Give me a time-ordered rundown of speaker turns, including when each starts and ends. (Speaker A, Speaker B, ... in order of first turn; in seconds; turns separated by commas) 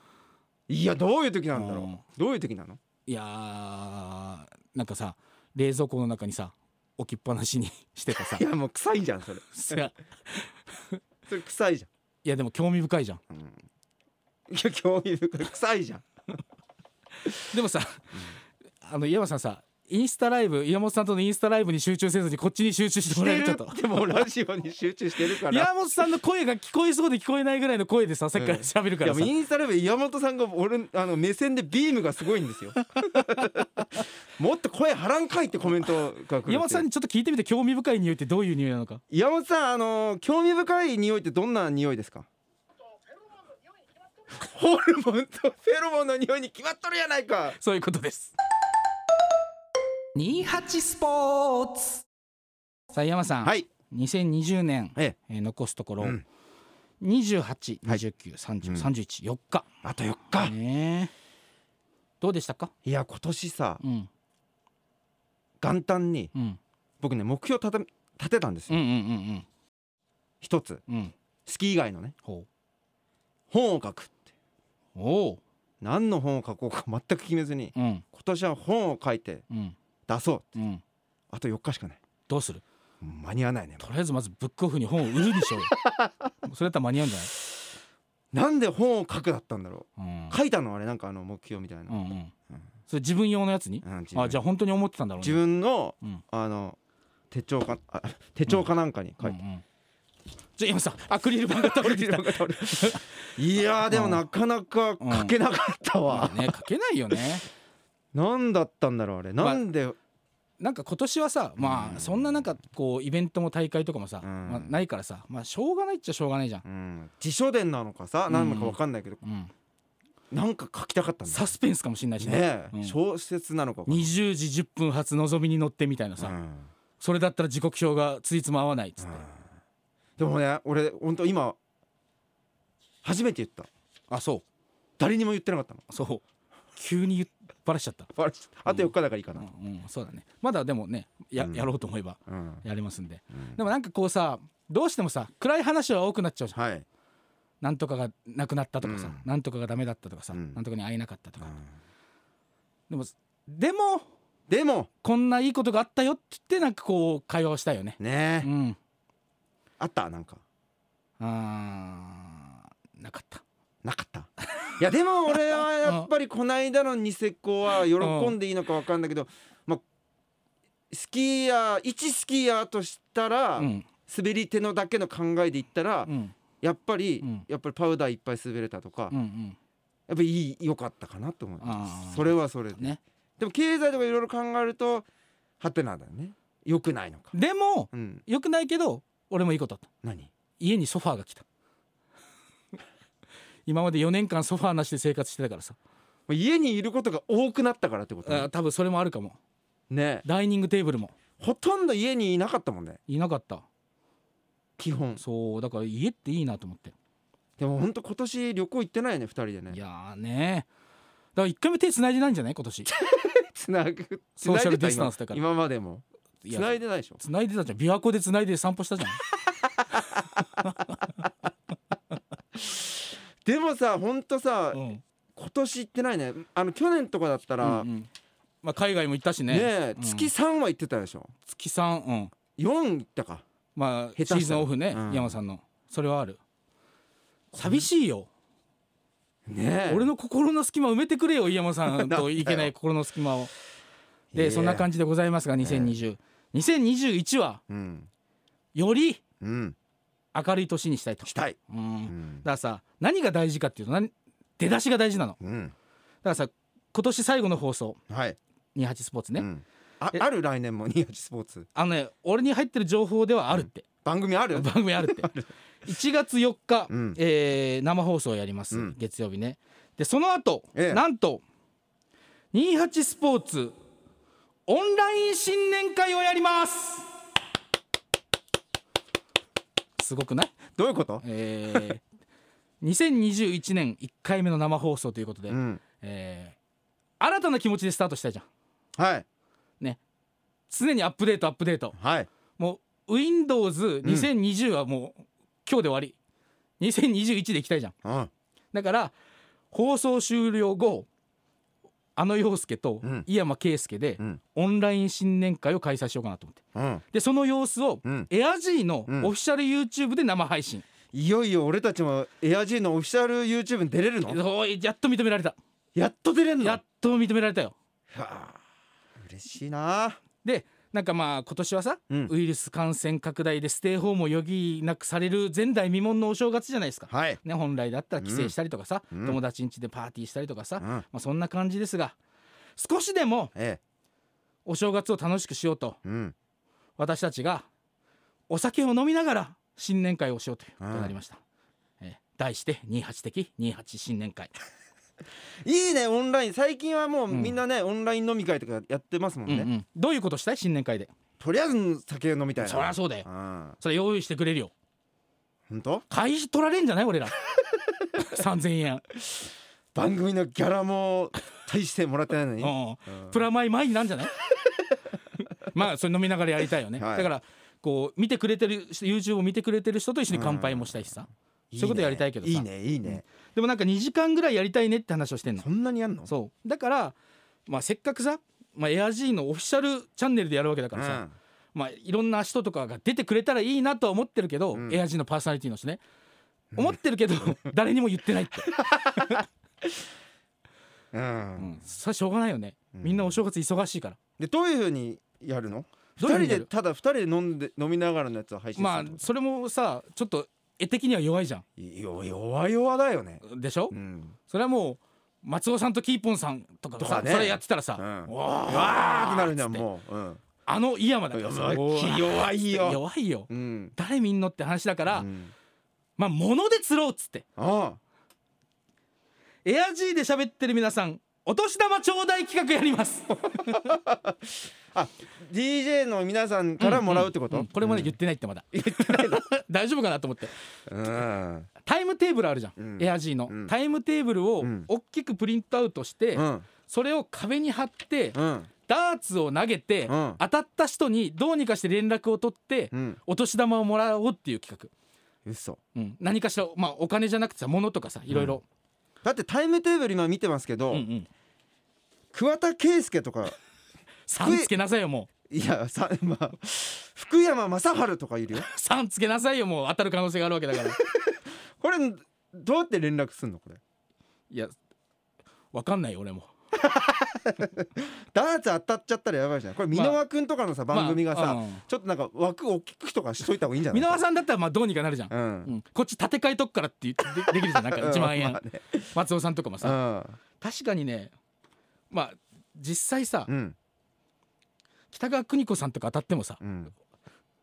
Speaker A: 0.7-2.8, Speaker B: 1.5-2.0, Speaker B: 3.1-8.4, Speaker A: 8.2-9.9, Speaker B: 9.5-10.5, Speaker A: 11.3-11.9, Speaker B: 12.2-13.2, Speaker A: 13.3-13.6, Speaker A: 14.5-16.1, Speaker B: 17.4-18.2, Speaker B: 18.8-24.2, Speaker A: 23.1-25.7, Speaker B: 25.2-29.3, Speaker A: 28.3-36.9, Speaker B: 33.0-33.4, Speaker B: 36.5-39.0, Speaker A: 39.1-42.3, Speaker A: 44.4-47.6, Speaker B: 47.5-48.3, Speaker B: 50.1-52.0, Speaker B: 52.9-56.2, Speaker B: 57.0-59.7, Speaker A: 58.6-58.9, Speaker A: 59.8-60.5, Speaker B: 60.4-61.1, Speaker B: 62.2-62.7, Speaker A: 62.9-63.8, Speaker B: 63.8-64.1, Speaker A: 65.6-66.3, Speaker A: 67.0-68.8, Speaker B: 68.7-69.5, Speaker A: 70.4-70.8, Speaker B: 70.9-71.1, Speaker A: 71.5-72.1, Speaker A: 73.5-74.2, Speaker B: 75.0-75.4, Speaker A: 75.8-79.4, Speaker B: 77.8-78.0, Speaker B: 79.5-79.8, Speaker A: 80.1-80.5, Speaker B: 80.6-80.8, Speaker A: 81.3-82.0, Speaker B: 82.3-82.6, Speaker A: 83.0-83.9, Speaker B: 83.8-85.8, Speaker A: 85.5-86.1, Speaker B: 86.4-87.3, Speaker A: 88.3-92.0, Speaker B: 90.0-90.4, Speaker B: 91.9-92.3, Speaker B: 92.9-95.4, Speaker A: 93.8-94.4, Speaker A: 95.2-96.8, Speaker A: 97.3-99.4, Speaker B: 99.2-99.6, Speaker B: 100.6-103.1, Speaker A: 101.4-106.5, Speaker B: 103.9-104.2, Speaker B: 105.0-105.4, Speaker B: 106.1-107.5, Speaker A: 108.1-110.0, Speaker B: 110.6-116.6, Speaker A: 111.6-112.5, Speaker A: 114.2-114.8, Speaker A: 116.7-119.2, Speaker B: 118.3-119.5, Speaker A: 120.3-121.5, Speaker B: 121.3-123.0, Speaker A: 122.2-124.1, Speaker B: 123.9-126.4, Speaker A: 126.2-126.7, Speaker B: 127.0-129.2, Speaker A: 129.0-129.4, Speaker A: 130.2-131.6, Speaker A: 133.0-133.7, Speaker B: 134.1-134.4, Speaker A: 135.0-135.8, Speaker B: 135.9-136.2, Speaker B: 136.8-138.1, Speaker A: 138.2-139.5, Speaker B: 138.7-146.6, Speaker A: 141.4-141.7, Speaker A: 142.3-142.6, Speaker A: 146.6-146.8, Speaker B: 147.6-151.5, Speaker A: 148.8-149.2, Speaker A: 150.3-150.6, Speaker A: 151.4-151.7, Speaker B: 152.9-154.1, Speaker A: 154.5-154.9, Speaker B: 155.0-158.8, Speaker A: 158.0-158.5, Speaker A: 159.8-160.4, Speaker B: 161.2-163.4, Speaker A: 163.8-169.8, Speaker B: 168.0-168.4, Speaker A: 170.9-176.1, Speaker B: 173.6-173.9, Speaker B: 176.1-176.3, Speaker A: 176.6-179.2, Speaker B: 179.1-179.6, Speaker A: 180.1-185.1, Speaker B: 181.6-183.0, Speaker A: 185.6-187.3, Speaker B: 187.3-189.8, Speaker A: 187.9-188.2, Speaker A: 190.0-190.3, Speaker B: 190.6-191.4, Speaker B: 193.7-195.8, Speaker A: 196.3-198.5, Speaker B: 198.2-199.4, Speaker A: 199.9-200.3, Speaker B: 200.2-201.1, Speaker A: 201.4-203.0, Speaker B: 203.1-203.7, Speaker A: 204.8-205.2, Speaker B: 205.2-206.9, Speaker A: 207.6-209.8, Speaker B: 209.7-210.7, Speaker B: 211.4-212.9, Speaker A: 212.9-217.2, Speaker B: 214.4-215.4, Speaker B: 216.4-219.2, Speaker A: 219.4-220.7, Speaker B: 220.6-221.0, Speaker A: 222.6-224.8, Speaker B: 224.7-225.0, Speaker A: 225.4-227.9, Speaker B: 227.6-228.1, Speaker B: 228.6-230.3, Speaker A: 229.5-231.3, Speaker B: 231.5-232.3, Speaker A: 232.6-233.4, Speaker B: 233.8-236.4, Speaker A: 234.2-235.4, Speaker B: 237.5-238.3, Speaker A: 237.6-237.8, Speaker A: 239.5-240.1, Speaker B: 239.9-243.5, Speaker A: 241.9-242.7, Speaker A: 244.3-244.9, Speaker B: 244.3-247.6, Speaker A: 245.6-246.0, Speaker A: 247.7-248.1, Speaker B: 248.8-249.2, Speaker A: 249.4-249.8, Speaker B: 250.3-255.4, Speaker A: 251.2-252.5, Speaker A: 255.4-255.7, Speaker B: 256.2-258.0, Speaker A: 258.1-258.4, Speaker B: 258.8-259.5, Speaker A: 259.4-261.7, Speaker B: 261.8-263.8, Speaker A: 263.5-265.5, Speaker B: 264.5-265.3, Speaker B: 265.9-271.4, Speaker A: 266.9-267.2, Speaker A: 270.8-271.0, Speaker B: 272.5-273.8, Speaker B: 274.7-277.1, Speaker B: 280.0-280.6, Speaker A: 280.8-281.8, Speaker B: 281.2-282.0, Speaker B: 282.8-286.6, Speaker A: 285.5-285.8, Speaker B: 287.2-288.5, Speaker A: 289.0-289.2, Speaker B: 290.7-291.9, Speaker A: 291.9-292.3, Speaker B: 292.6-296.2, Speaker A: 294.0-294.3, Speaker B: 296.8-297.9, Speaker A: 298.1-298.3, Speaker B: 298.7-299.1, Speaker B: 299.7-301.1, Speaker B: 302.2-306.6, Speaker A: 306.8-307.0, Speaker B: 307.1-310.9, Speaker A: 311.1-314.4, Speaker B: 314.2-315.6, Speaker A: 315.9-316.8, Speaker B: 316.6-317.7, Speaker A: 318.1-318.6, Speaker A: 319.2-320.2, Speaker B: 320.4-332.2, Speaker A: 327.1-327.4, Speaker A: 328.2-328.5, Speaker A: 329.1-329.4, Speaker B: 332.8-333.5, Speaker A: 333.6-333.8, Speaker B: 334.7-336.0, Speaker A: 336.1-336.3, Speaker B: 337.0-337.7, Speaker B: 338.5-341.4, Speaker A: 340.8-341.2, Speaker B: 342.0-344.5, Speaker A: 345.6-349.7, Speaker B: 347.3-347.6, Speaker B: 349.5-351.1, Speaker A: 351.4-353.8, Speaker B: 352.6-353.3, Speaker B: 353.8-354.7, Speaker A: 355.7-356.1, Speaker B: 356.1-357.4, Speaker B: 358.2-359.1, Speaker A: 359.9-363.4, Speaker B: 362.6-364.4, Speaker B: 365.5-375.7, Speaker A: 367.0-367.3, Speaker A: 370.3-371.1, Speaker A: 371.7-373.2, Speaker A: 375.6-376.3, Speaker B: 376.3-377.1, Speaker B: 377.7-381.2, Speaker A: 380.9-381.3, Speaker B: 381.8-386.0, Speaker A: 384.7-385.0, Speaker A: 386.7-387.7, Speaker B: 386.8-388.7, Speaker A: 388.6-389.4, Speaker A: 391.1-391.8, Speaker B: 391.6-394.2, Speaker A: 392.9-393.4, Speaker A: 394.4-399.3, Speaker B: 396.2-396.7, Speaker B: 398.8-401.6, Speaker A: 401.8-404.4, Speaker B: 403.4-403.9, Speaker B: 404.5-409.9, Speaker A: 407.0-410.4, Speaker B: 410.6-415.3, Speaker A: 411.3-413.9, Speaker A: 415.1-415.5, Speaker B: 416.2-417.4, Speaker A: 417.6-418.0, Speaker B: 419.6-423.8, Speaker A: 423.4-428.1, Speaker B: 426.8-430.5, Speaker A: 428.7-429.5, Speaker A: 430.9-431.7, Speaker B: 431.8-444.9, Speaker A: 432.8-433.7, Speaker A: 434.6-434.9, Speaker A: 436.3-436.7, Speaker A: 438.3-438.7, Speaker A: 440.1-440.4, Speaker A: 442.9-443.2, Speaker A: 445.5-445.8, Speaker B: 445.9-448.6, Speaker A: 448.3-448.6, Speaker A: 449.2-451.1, Speaker B: 450.9-451.3, Speaker A: 452.3-453.6, Speaker B: 454.3-455.3, Speaker A: 454.4-454.7, Speaker A: 455.5-458.7, Speaker B: 458.5-461.0, Speaker A: 460.8-463.8, Speaker B: 465.7-466.5, Speaker A: 466.8-474.2, Speaker B: 469.9-470.2, Speaker B: 470.9-471.8, Speaker B: 473.9-478.6, Speaker A: 475.3-475.7, Speaker A: 477.5-479.1, Speaker B: 479.1-480.0, Speaker A: 479.8-480.4, Speaker B: 480.6-481.3, Speaker B: 482.1-483.5, Speaker A: 483.5-483.8, Speaker B: 485.1-486.6, Speaker A: 486.6-486.9